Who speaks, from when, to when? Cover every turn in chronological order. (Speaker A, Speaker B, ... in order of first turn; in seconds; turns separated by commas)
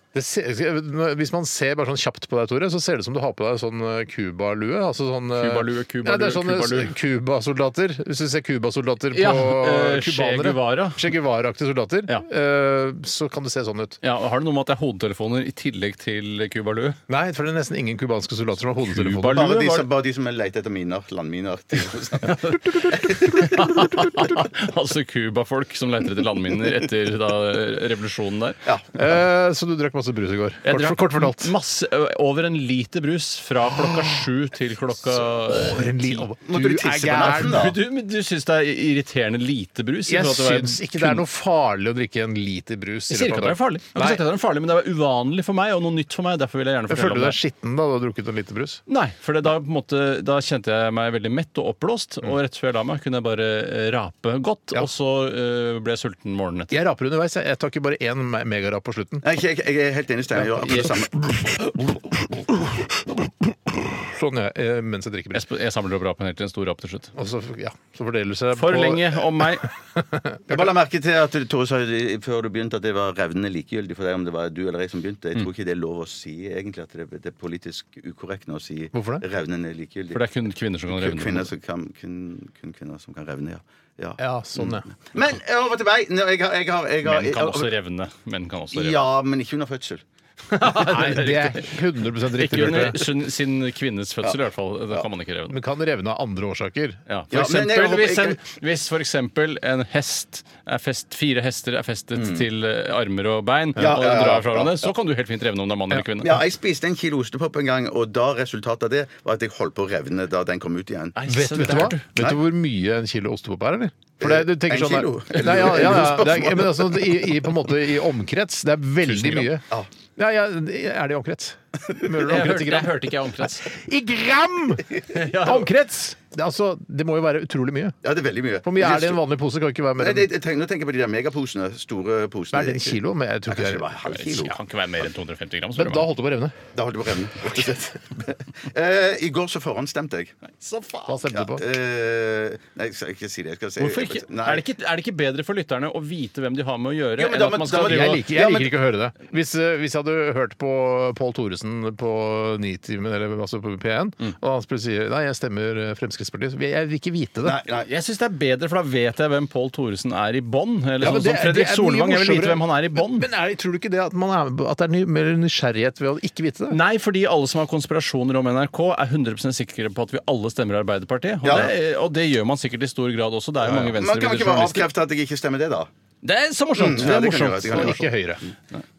Speaker A: 0.1-14.0, Speaker B: 5.3-6.9, Speaker B: 9.1-11.1, Speaker B: 14.0-17.0, Speaker A: 17.1-19.5, Speaker B: 18.9-19.9, Speaker C: 19.2-23.6, Speaker B: 22.3-28.6, Speaker C: 28.6-29.1, Speaker A: 28.9-31.5, Speaker B: 30.6-35.9, Speaker A: 33.7-34.2, Speaker A: 35.1-37.7, Speaker C: 36.4-37.8, Speaker B: 37.4-41.2, Speaker A: 40.1-44.2, Speaker B: 43.1-47.4, Speaker A: 46.9-48.8, Speaker B: 48.9-56.8, Speaker A: 56.7-59.2, Speaker C: 59.2-61.8, Speaker A: 60.5-60.9, Speaker A: 61.8-65.4, Speaker B: 65.3-67.1, Speaker A: 67.2-70.7, Speaker B: 68.5-69.7, Speaker C: 70.5-80.2, Speaker A: 78.9-79.2, Speaker B: 80.1-81.5, Speaker C: 80.9-87.7, Speaker A: 84.2-84.8, Speaker B: 87.0-89.1, Speaker C: 88.7-90.0, Speaker B: 90.5-91.8, Speaker A: 90.7-93.0, Speaker B: 92.3-95.6, Speaker A: 95.5-97.0, Speaker B: 97.1-106.4, Speaker C: 97.3-98.4, Speaker C: 102.2-102.4, Speaker C: 103.8-104.9, Speaker C: 106.2-112.4, Speaker B: 111.2-112.0, Speaker A: 111.3-119.6, Speaker C: 114.2-117.5, Speaker B: 119.0-119.5, Speaker A: 120.2-128.0, Speaker B: 122.1-123.7, Speaker B: 125.1-125.7, Speaker C: 128.0-129.2, Speaker A: 128.6-130.3, Speaker C: 130.0-134.6, Speaker A: 132.5-134.5, Speaker B: 134.1-136.1, Speaker A: 135.8-136.6, Speaker C: 136.7-140.3, Speaker B: 140.4-141.2, Speaker A: 141.1-141.7, Speaker C: 141.3-144.6, Speaker B: 143.8-148.2, Speaker C: 147.2-148.7, Speaker A: 147.7-157.6, Speaker C: 157.4-157.9, Speaker B: 157.8-163.3, Speaker A: 161.0-166.8, Speaker B: 166.7-174.9, Speaker C: 171.4-171.7, Speaker C: 173.6-175.9, Speaker B: 176.2-178.1, Speaker C: 176.8-178.1, Speaker A: 177.7-178.4